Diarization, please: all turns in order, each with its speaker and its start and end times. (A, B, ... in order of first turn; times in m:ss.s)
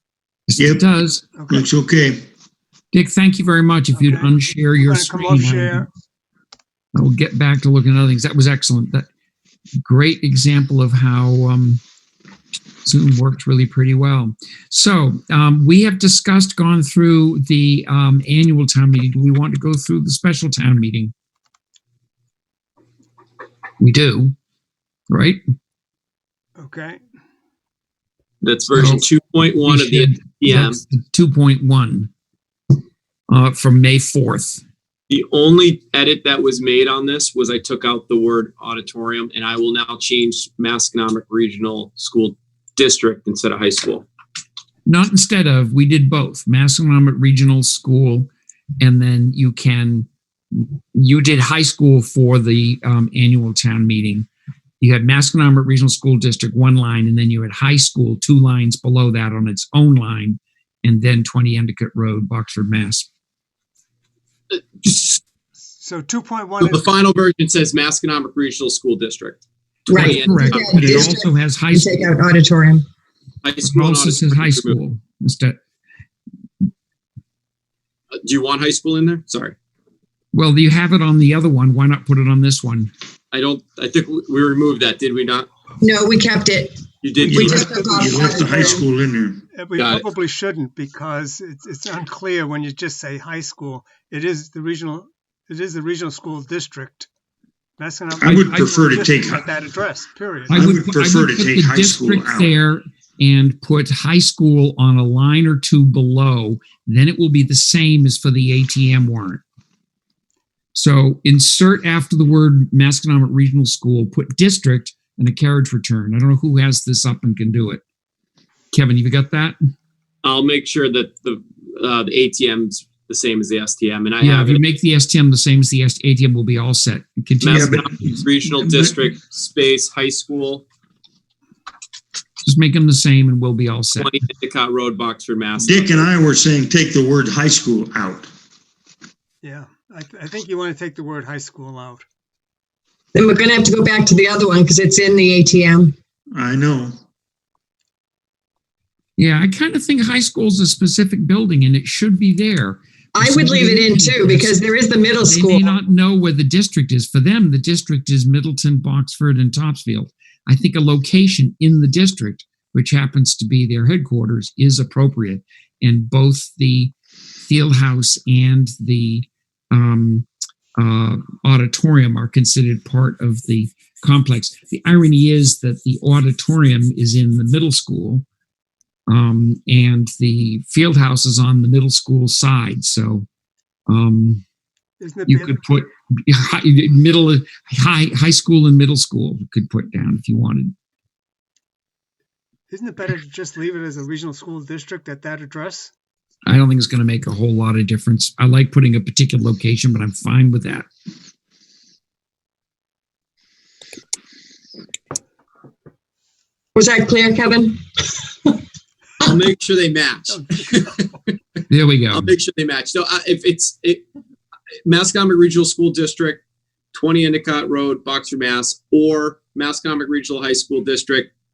0:00.5-0:01.2 A
0:00.6-0:00.8 B
0:01.3-0:01.7 C
0:01.5-0:02.2 B
0:02.9-0:05.9 A
0:03.9-0:05.9 C
0:06.9-0:09.0 A
0:09.8-0:11.8 A
0:12.8-0:21.1 A
0:23.8-0:24.3 A
0:25.1-0:25.4 A
0:26.6-0:27.0 C
0:28.4-0:30.8 D
0:28.7-0:29.0 A
0:29.6-0:32.1 A
0:33.3-0:34.6 A
0:35.1-0:44.1 D
0:44.8-0:54.3 A
0:54.8-1:03.1 A
1:04.8-1:05.2 D
1:05.8-1:06.8 C
1:06.6-1:09.4 D
1:09.9-1:12.1 A
1:09.9-1:12.8 E
1:09.9-1:10.8 D
1:13.4-1:14.8 D
1:13.6-1:15.6 A
1:18.2-1:19.5 D
1:20.3-1:22.9 A
1:23.3-1:25.5 D
1:25.8-1:26.8 E
1:27.0-1:27.8 D
1:27.2-1:29.4 B
1:27.3-1:28.8 E
1:27.7-1:28.8 C
1:29.5-1:37.1 C
1:29.8-1:30.1 D
1:37.8-1:40.6 C
1:38.2-1:39.5 B
1:38.2-1:38.7 A
1:40.5-1:49.4 A
1:40.5-1:42.5 B
1:50.7-1:57.8 A
1:58.7-1:59.6 A
2:00.2-2:04.7 D
2:04.2-2:07.8 A
2:07.4-2:10.6 D
2:07.5-2:09.0 B
2:12.4-2:14.1 A
2:14.0-2:16.1 D
2:15.6-2:18.3 B
2:19.4-2:22.0 C
2:23.1-2:25.9 E
2:26.3-2:27.0 B
2:29.2-2:46.9 A
2:33.2-2:35.8 E
2:47.4-2:58.2 A
2:59.1-3:03.2 A
3:03.9-3:04.4 A
3:05.0-3:05.7 C
3:05.2-3:10.7 A
3:12.7-3:15.9 C
3:16.4-3:20.9 A
3:26.7-3:28.6 E
3:29.2-3:31.0 D
3:30.3-3:31.1 C
3:31.7-3:32.3 A
3:32.1-3:34.0 D
3:34.8-3:36.4 D
3:36.9-3:41.3 D